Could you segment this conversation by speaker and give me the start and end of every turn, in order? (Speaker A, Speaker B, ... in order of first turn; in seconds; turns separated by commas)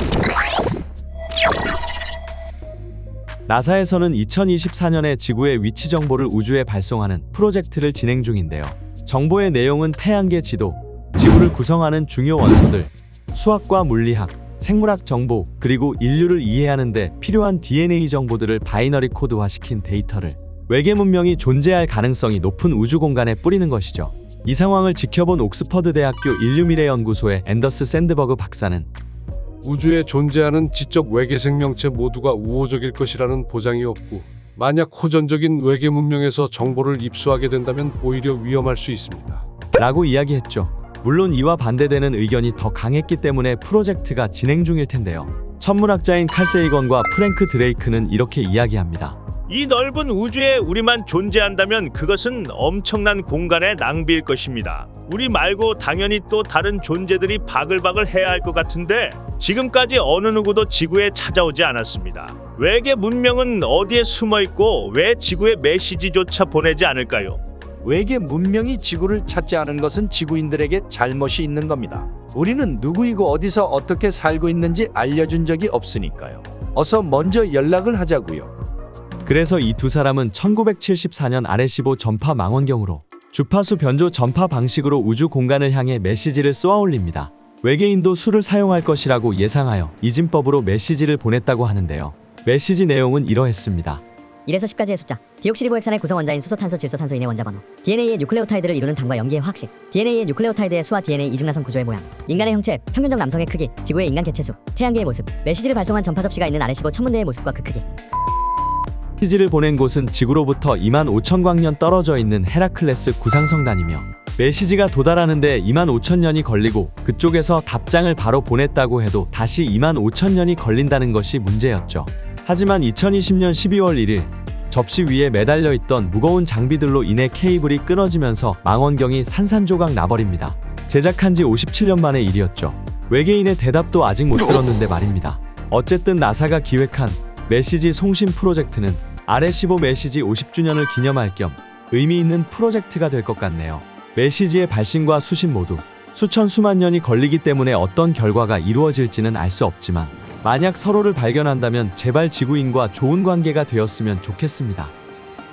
Speaker A: 3.5-28.9, Speaker B: 29.6-39.4, Speaker A: 39.8-49.2, Speaker C: 49.5-67.4, Speaker D: 67.8-78.5, Speaker A: 79.2-94.0, Speaker E: 94.5-107.8, Speaker A: 109.2-154.9